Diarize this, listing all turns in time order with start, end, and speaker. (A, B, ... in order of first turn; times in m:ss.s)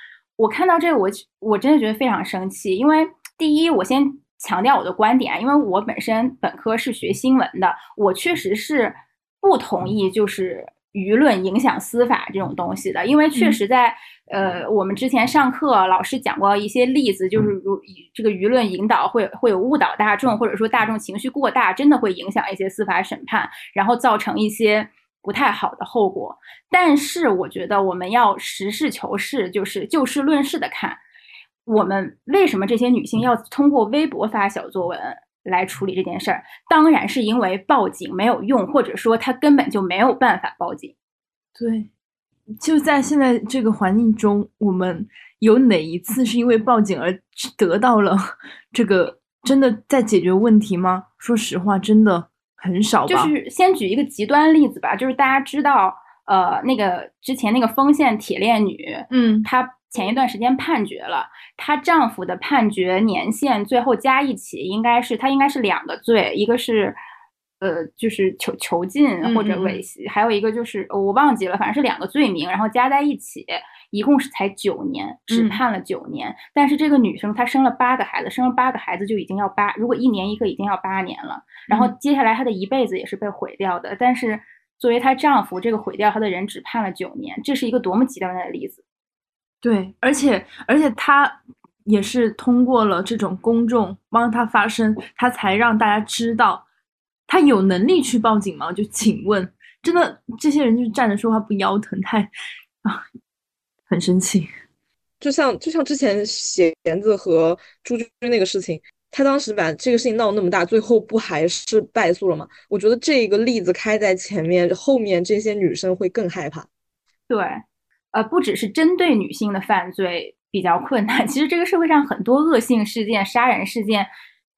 0:00.4-0:31.0 A
0:13.3-0:13.6 B
0:31.7-0:40.9 A
0:41.6-0:41.9 B
0:42.6-0:53.3 B
0:53.1-1:07.0 A
0:59.1-0:59.5 B
1:07.6-1:28.8 A
1:09.2-1:09.8 B
1:15.3-1:15.6 B
1:21.7-1:21.9 B
1:29.6-1:36.6 B
1:37.3-1:42.3 B
1:43.9-1:44.5 B
1:45.2-1:56.7 C
1:57.3-2:04.1 A